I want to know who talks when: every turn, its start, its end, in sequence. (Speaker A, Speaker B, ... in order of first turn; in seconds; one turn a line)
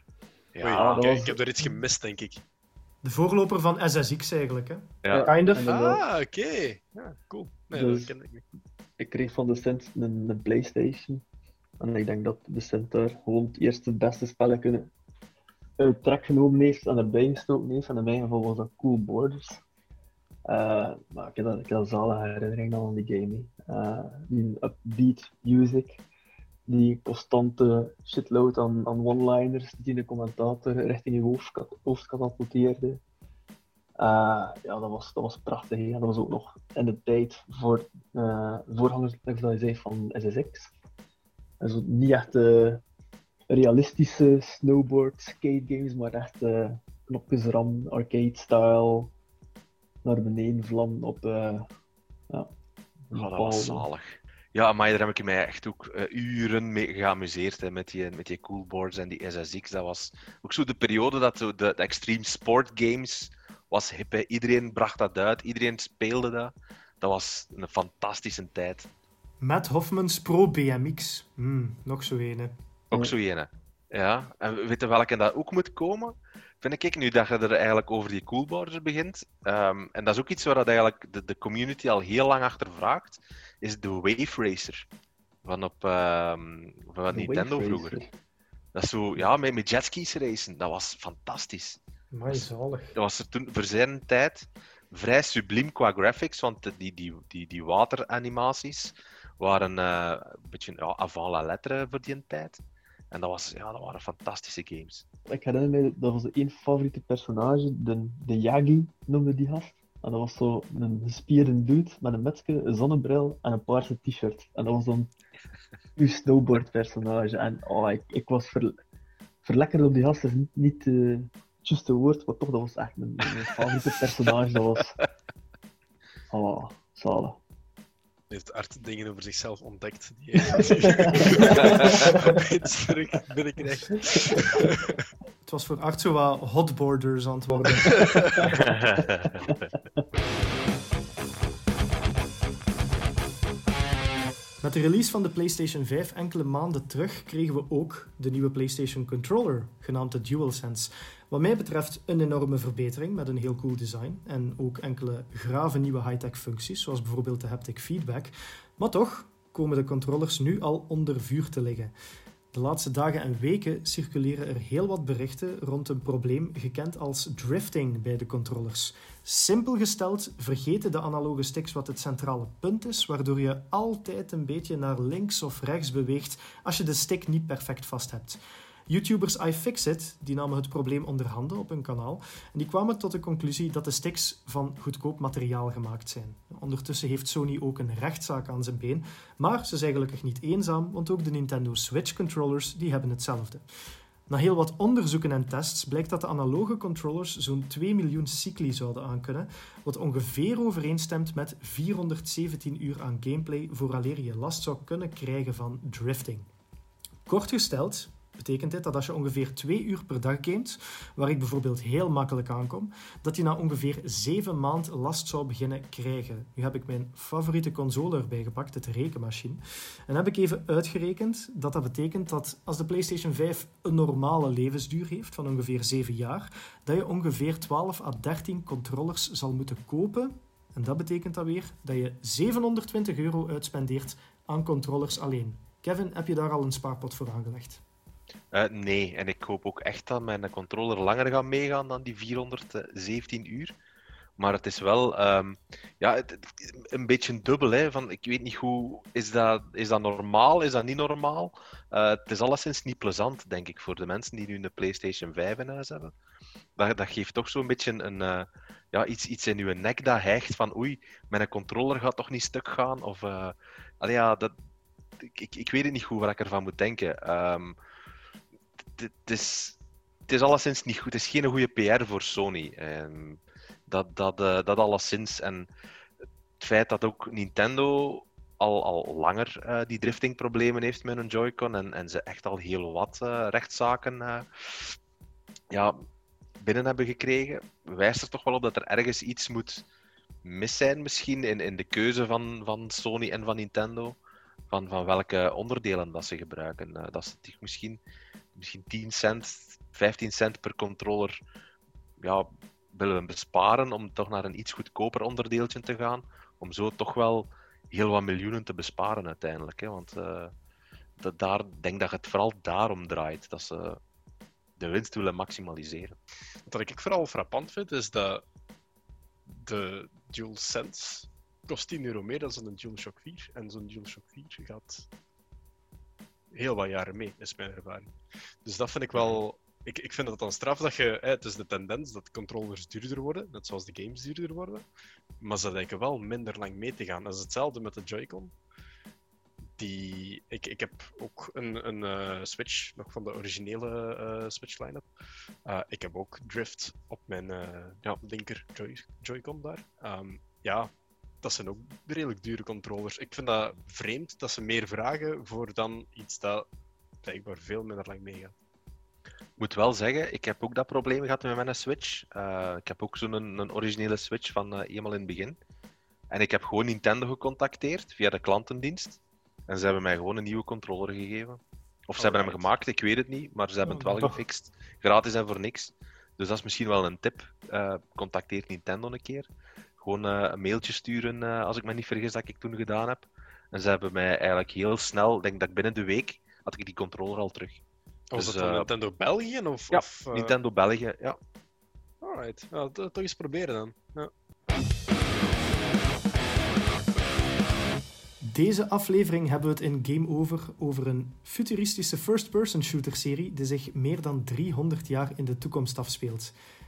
Speaker A: 0.5-1.0
Speaker B: 0.6-2.4
Speaker C: 0.7-1.4
Speaker D: 3.0-5.7
Speaker A: 5.0-5.3
Speaker C: 5.1-6.0
Speaker B: 5.6-8.4
Speaker C: 7.7-8.1
Speaker C: 9.0-11.2
Speaker C: 11.8-14.9
Speaker C: 15.8-19.6
Speaker C: 20.5-26.0
Speaker C: 26.7-33.0
Speaker C: 34.0-40.7
Speaker C: 41.6-42.8
Speaker C: 43.5-49.1
Speaker C: 50.0-51.7
Speaker C: 53.1-53.9
Speaker A: 53.1-68.9
Speaker D: 69.4-72.5
Speaker A: 72.9-84.8
Speaker A: 85.4-88.0
Speaker C: 87.1-88.1
Speaker A: 88.7-91.8
Speaker D: 92.1-93.0
Speaker A: 92.3-105.0
Speaker C: 105.3-115.1
Speaker C: 116.0-118.7
Speaker C: 119.4-125.0
Speaker C: 126.3-127.4
Speaker B: 128.3-135.0
Speaker C: 130.4-132.4
Speaker A: 131.6-132.1
Speaker C: 134.2-134.6
Speaker D: 135.4-138.2
Speaker B: 137.8-138.5
Speaker A: 138.5-139.5
Speaker D: 144.6-161.9
Speaker D: 162.5-193.6
Speaker D: 194.3-206.4
Speaker D: 207.2-237.8
Speaker A: 238.5-243.7
Speaker A: 244.4-256.1
Speaker A: 256.8-264.5
Speaker A: 265.2-267.8
Speaker A: 268.9-269.8
Speaker A: 270.3-275.7
Speaker A: 276.6-284.9
Speaker A: 285.7-286.0
Speaker A: 286.6-289.8
Speaker A: 290.4-294.2
Speaker A: 294.7-298.0
Speaker A: 298.5-301.4
Speaker A: 302.2-310.5
Speaker A: 311.2-314.0
Speaker A: 314.8-316.1
Speaker B: 316.7-318.4
Speaker B: 319.5-325.1
Speaker B: 326.5-328.1
Speaker B: 328.6-334.8
Speaker A: 329.1-329.4
Speaker B: 335.4-338.5
Speaker B: 339.8-345.0
Speaker B: 345.6-350.9
Speaker B: 351.4-356.6
Speaker B: 357.2-358.5
Speaker A: 359.6-365.6
Speaker A: 366.3-387.8
Speaker B: 372.2-372.7
Speaker B: 388.3-390.6
Speaker A: 388.4-388.9
Speaker A: 389.9-391.4
Speaker B: 392.2-394.3
Speaker D: 398.4-406.5